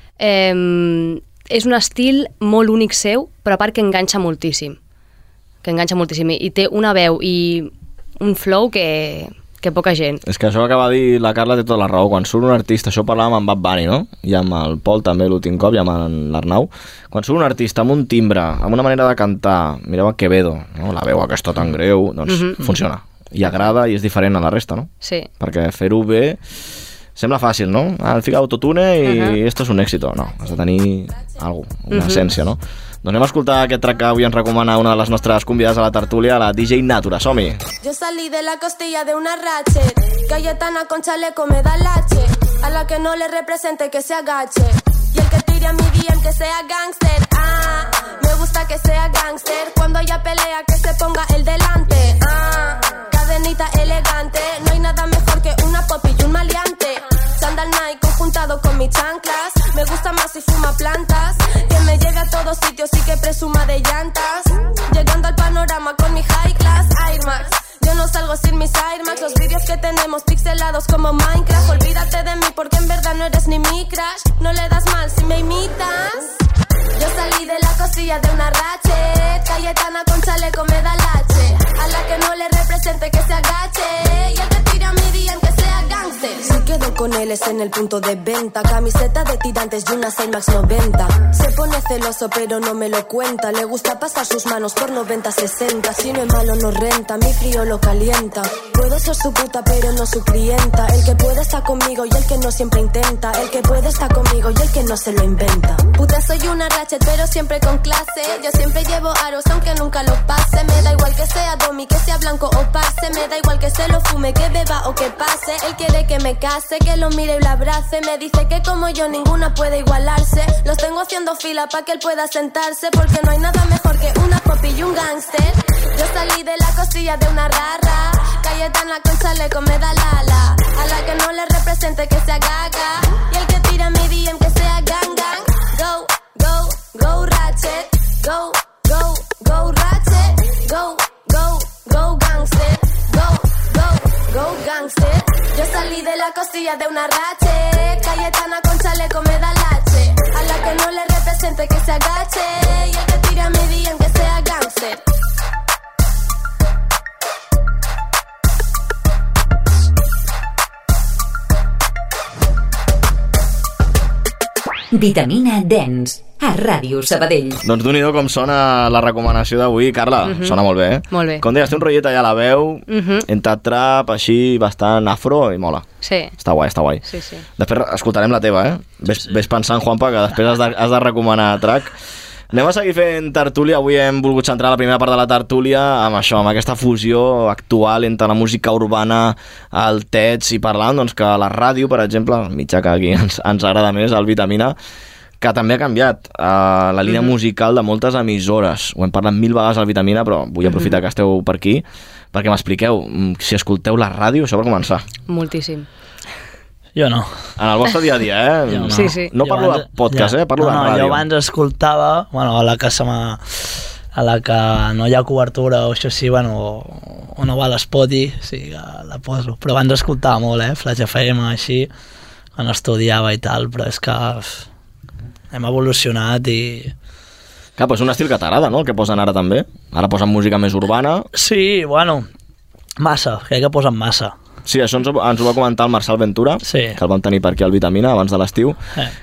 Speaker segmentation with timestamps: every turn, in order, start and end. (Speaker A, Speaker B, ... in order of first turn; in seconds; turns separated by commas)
Speaker A: 0.2-4.8, Speaker A: 5.6-10.2, Speaker B: 10.2-24.9, Speaker A: 22.3-22.7, Speaker A: 25.0-25.3, Speaker B: 25.4-26.4, Speaker B: 27.2-37.6, Speaker A: 29.0-29.4, Speaker A: 31.9-32.3, Speaker C: 37.8-76.3, Speaker C: 77.0-155.0, Speaker D: 164.9-167.6, Speaker B: 167.6-175.9, Speaker A: 170.2-170.6, Speaker A: 171.1-171.4, Speaker A: 172.9-173.3, Speaker A: 176.0-176.3, Speaker B: 176.4-177.0, Speaker A: 177.1-177.4, Speaker B: 177.6-181.9, Speaker B: 182.5-194.8, Speaker B: 195.4-205.1, Speaker A: 197.1-197.3, Speaker A: 200.7-200.9, Speaker A: 205.3-205.9, Speaker E: 206.9-207.5, Speaker B: 207.6-211.3, Speaker E: 208.7-221.9, Speaker A: 208.9-209.3, Speaker E: 222.6-224.7, Speaker E: 225.5-226.9, Speaker B: 227.8-231.3, Speaker E: 231.3-232.3, Speaker E: 233.0-234.3, Speaker B: 234.7-238.8, Speaker E: 236.6-237.0